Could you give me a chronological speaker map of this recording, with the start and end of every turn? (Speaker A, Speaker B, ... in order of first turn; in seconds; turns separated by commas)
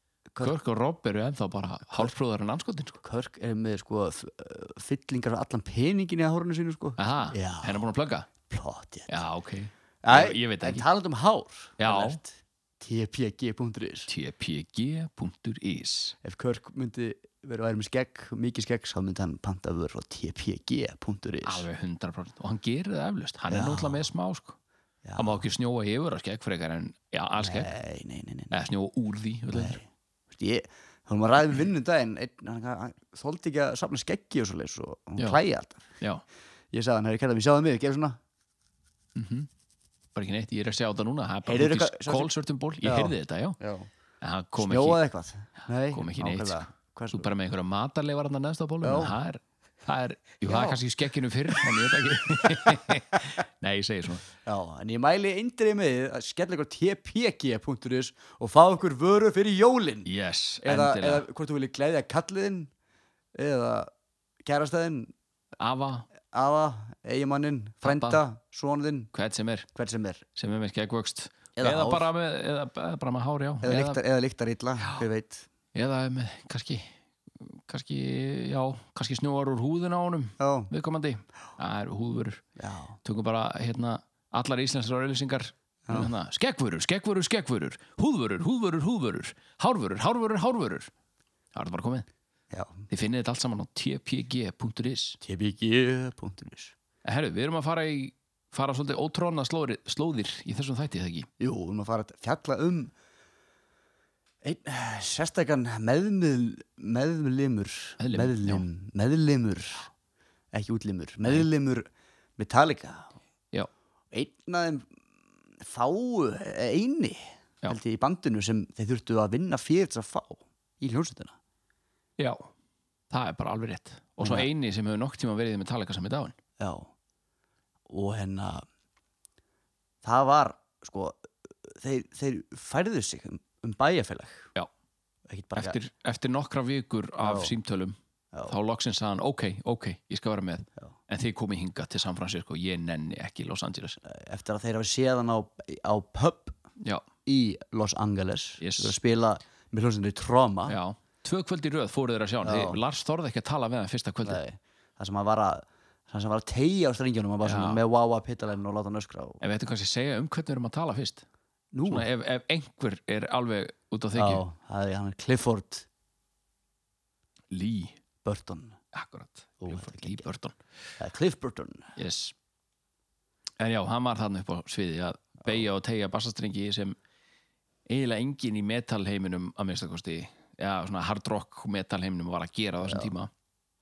Speaker A: 0.4-3.0, Speaker B: 3.0-7.8, Speaker A: 7.0-8.3, Speaker B: 8.5-9.2, Speaker A: 9.1-10.8, Speaker B: 10.0-14.1, Speaker A: 11.8-12.2, Speaker A: 14.1-16.1, Speaker B: 16.2-21.6, Speaker A: 21.4-24.6, Speaker B: 23.5-24.0, Speaker B: 25.0-25.4, Speaker A: 25.1-27.7, Speaker B: 27.4-28.6, Speaker A: 28.5-29.8, Speaker B: 29.5-35.9, Speaker B: 36.7-38.2, Speaker A: 39.1-39.5, Speaker A: 40.1-43.6, Speaker B: 41.5-42.3, Speaker B: 42.8-43.9, Speaker A: 44.2-45.0, Speaker B: 44.6-47.3, Speaker A: 45.9-54.2, Speaker B: 48.8-49.1, Speaker B: 50.5-50.8, Speaker B: 54.4-60.1, Speaker A: 60.0-61.2, Speaker B: 60.6-62.7, Speaker B: 63.3-63.9, Speaker B: 64.4-65.1, Speaker A: 65.6-66.1, Speaker B: 66.3-69.1, Speaker A: 67.8-68.2, Speaker A: 69.1-69.7, Speaker B: 69.7-70.2, Speaker A: 70.3-74.0, Speaker B: 71.5-72.1, Speaker B: 73.6-75.5, Speaker A: 75.7-82.4, Speaker B: 80.4-80.7, Speaker B: 82.6-83.0, Speaker A: 83.0-90.9, Speaker A: 91.5-92.1, Speaker B: 92.5-92.9, Speaker A: 92.9-95.2, Speaker B: 95.2-96.7, Speaker A: 97.0-101.3, Speaker B: 101.4-102.9, Speaker B: 104.4-109.9, Speaker A: 108.0-108.6, Speaker B: 110.5-113.1, Speaker B: 114.1-114.8, Speaker B: 115.6-121.3, Speaker A: 122.2-122.5, Speaker A: 123.1-126.3, Speaker B: 124.2-124.5, Speaker B: 126.6-126.9, Speaker B: 127.9-128.6, Speaker B: 130.0-134.5, Speaker B: 135.3-135.8, Speaker A: 135.6-144.0, Speaker B: 137.2-137.5, Speaker B: 144.0-146.6, Speaker B: 147.2-150.8, Speaker A: 148.6-148.9, Speaker A: 150.7-154.4, Speaker B: 152.4-152.8, Speaker B: 154.2-159.4, Speaker A: 157.4-157.8, Speaker A: 159.4-161.2, Speaker B: 161.7-162.1, Speaker A: 161.8-164.4, Speaker B: 164.1-165.8, Speaker A: 167.5-168.0, Speaker B: 168.2-168.8, Speaker A: 168.9-170.6, Speaker B: 169.6-170.2, Speaker B: 171.0-171.9, Speaker A: 172.0-172.3, Speaker A: 173.6-176.9, Speaker A: 177.9-183.3, Speaker B: 182.8-183.1